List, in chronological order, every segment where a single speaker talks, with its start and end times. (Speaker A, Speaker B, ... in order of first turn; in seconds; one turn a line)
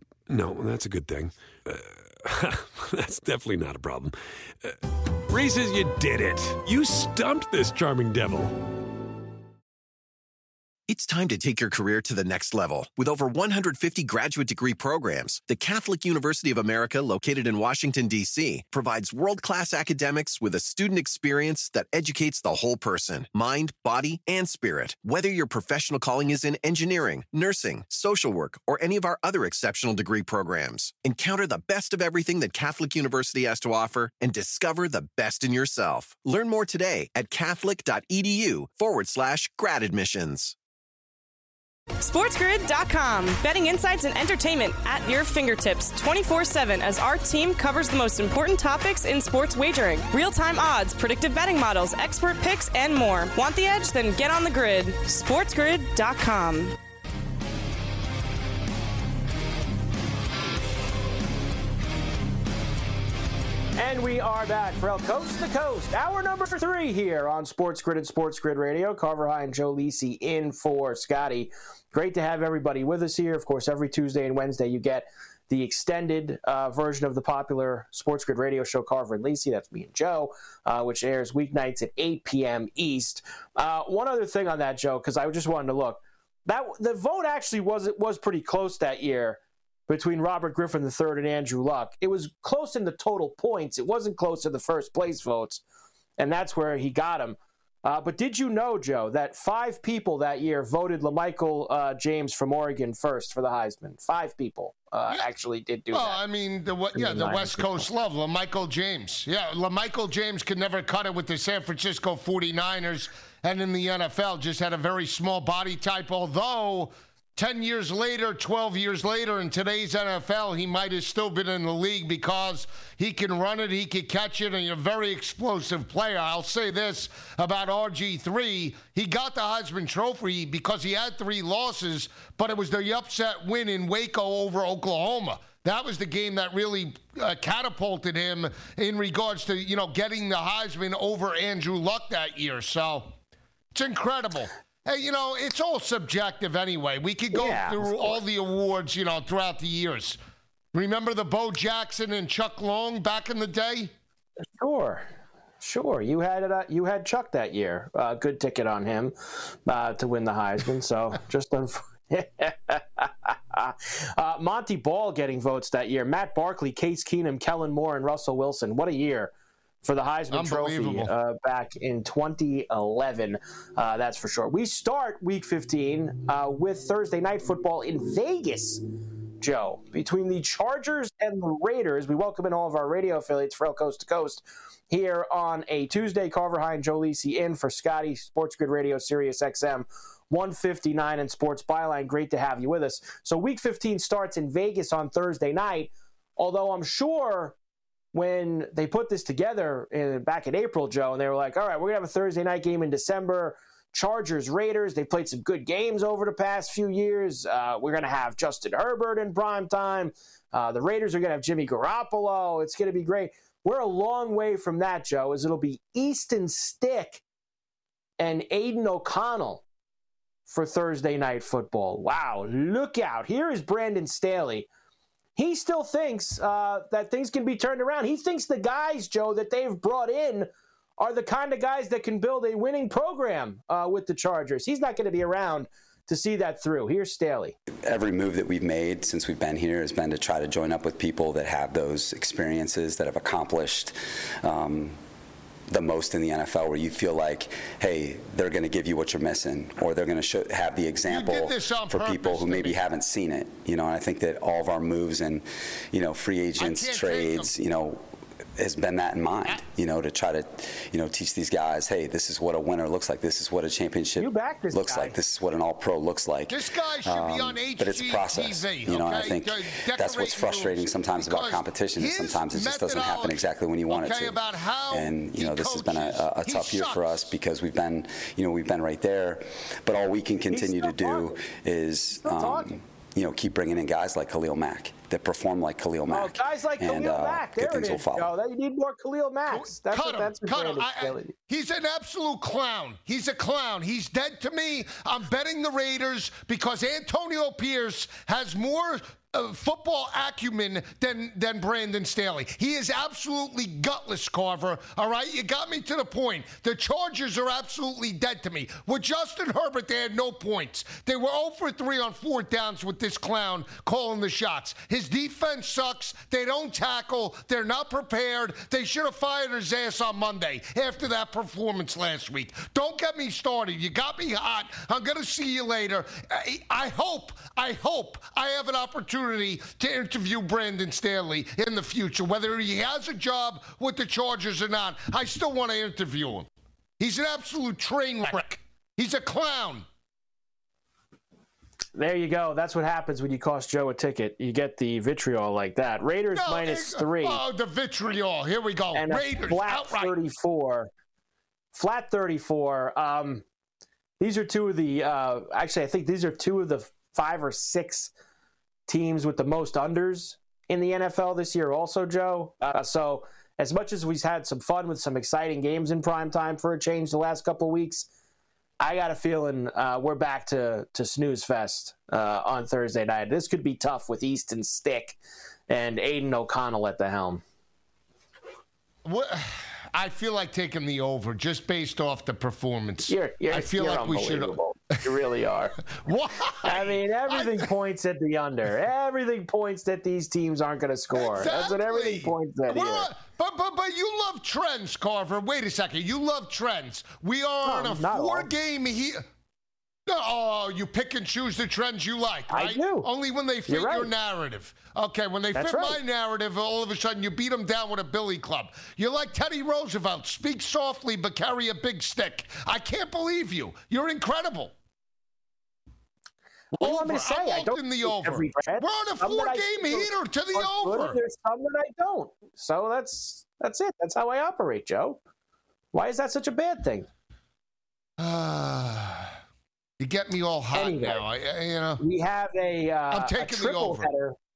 Speaker A: 0.3-8.6
Speaker B: 10.9-40.5
Speaker C: 42.0-56.7
Speaker D: 63.8-95.6
Speaker D: 96.2-106.2
Speaker E: 105.9-143.1
Speaker D: 106.9-107.9
Speaker E: 143.7-150.2
Speaker D: 147.3-148.2
Speaker E: 150.7-153.9
Speaker D: 154.6-155.1
Speaker D: 155.6-169.3
Speaker D: 169.8-178.8
Speaker E: 170.3-171.1
Speaker D: 179.4-197.6
Speaker D: 198.1-217.2
Speaker D: 218.2-219.6
Speaker D: 220.5-224.7
Speaker D: 225.3-237.6
Speaker F: 237.8-245.0
Speaker F: 245.7-258.0
Speaker E: 251.1-252.8
Speaker E: 256.6-257.5
Speaker F: 258.6-274.4
Speaker D: 264.2-265.1
Speaker E: 266.5-277.2
Speaker F: 274.9-288.3
Speaker D: 280.5-281.3
Speaker D: 282.2-282.7
Speaker D: 286.1-291.3
Speaker E: 289.5-336.5
Speaker E: 337.0-339.9
Speaker D: 341.9-347.4
Speaker E: 346.3-350.1
Speaker D: 348.9-350.9
Speaker D: 351.7-353.4
Speaker D: 354.2-358.1
Speaker D: 358.9-368.1
Speaker D: 368.8-375.2
Speaker D: 375.7-377.4
Speaker E: 379.0-384.5
Speaker D: 383.1-385.8
Speaker E: 385.9-387.6
Speaker D: 386.6-393.1
Speaker E: 391.1-399.2
Speaker D: 397.6-398.5
Speaker E: 400.1-414.7
Speaker D: 402.5-403.1
Speaker D: 403.7-404.1
Speaker D: 405.5-406.0
Speaker E: 416.8-421.2
Speaker D: 416.8-425.2
Speaker D: 425.9-427.1
Speaker E: 428.2-429.4
Speaker E: 430.0-432.0
Speaker D: 430.7-431.2
Speaker D: 432.0-434.3
Speaker E: 433.1-434.1